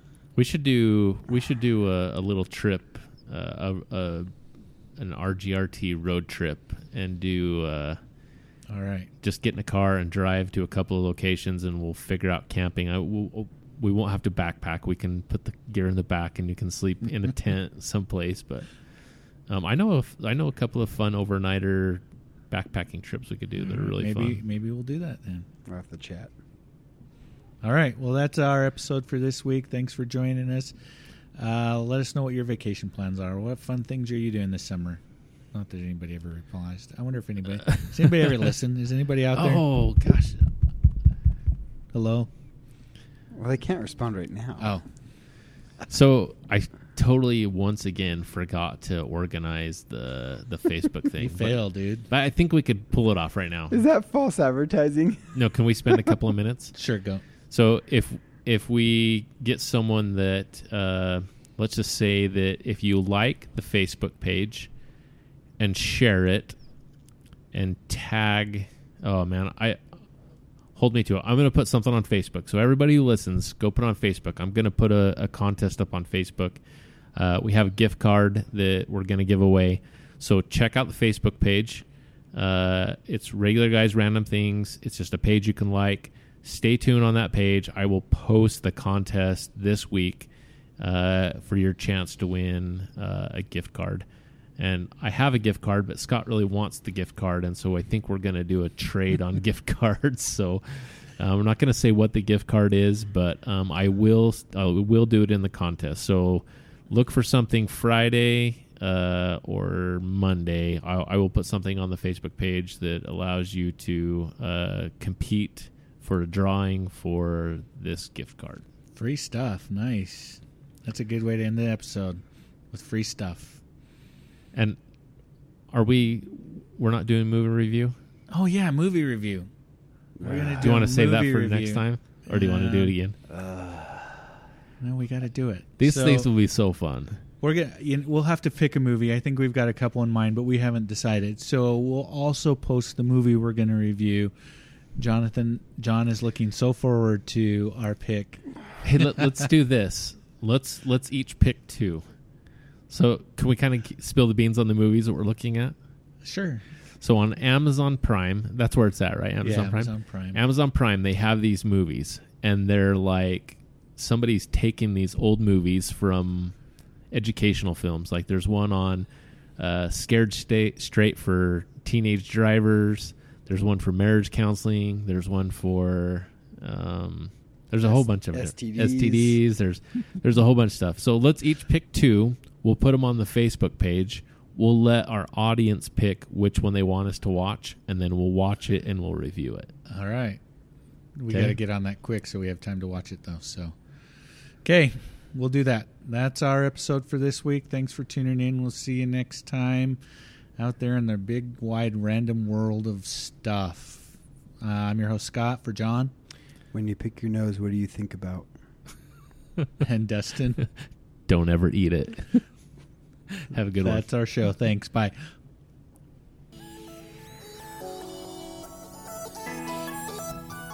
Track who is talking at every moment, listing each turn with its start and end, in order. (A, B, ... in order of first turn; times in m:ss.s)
0:00.3-0:04.3 A
0:05.0-0:08.0 A
0:08.7-0:09.1 B
0:09.2-0:18.8 A
0:19.4-0:24.4 A
0:23.9-0:25.5 B
0:25.6-0:26.3 C
0:27.6-0:30.7 B
0:31.3-0:35.0 B
0:35.5-0:39.6 B
0:37.7-0:38.2 A
0:39.3-0:40.5 A
0:41.9-0:42.3 B
0:43.3-0:44.8 C
0:44.6-0:44.8 B
0:45.9-0:53.8 A
0:51.2-0:52.1 B
0:53.7-0:55.4 C
0:55.3-0:56.8 A
0:56.7-0:57.2 B
0:57.5-1:04.7 A
1:05.6-1:06.6 A
1:07.5-1:09.8 A
1:10.7-1:16.6 A
1:17.1-1:34.0 A
1:34.6-1:58.6 A
1:58.9-2:03.6 B
2:04.5-2:04.8 A
2:05.7-2:08.0 A
2:08.3-2:09.5 B
2:10.2-2:10.7 C
2:10.2-2:12.9 B
2:10.6-2:13.2 A
2:13.3-2:14.3 C
2:14.8-2:16.3 B
2:15.8-2:17.2 A
2:17.4-2:24.3 B
2:25.0-2:28.6 B
2:28.8-2:32.1 A
2:32.9-2:35.8 A
2:36.2-2:36.7 B
2:37.0-2:46.6 A
2:39.4-2:40.4 B
2:47.1-3:09.7 A
2:57.8-2:59.4 C
3:09.9-3:10.4 B
3:11.2-3:13.8 B
3:11.3-3:11.6 A
3:14.6-3:20.0 B
3:20.6-3:26.1 B
3:26.7-3:28.5 C
3:29.8-3:30.6 B
3:31.3-3:32.4 A
3:33.3-3:34.0 A
3:33.8-3:35.3 B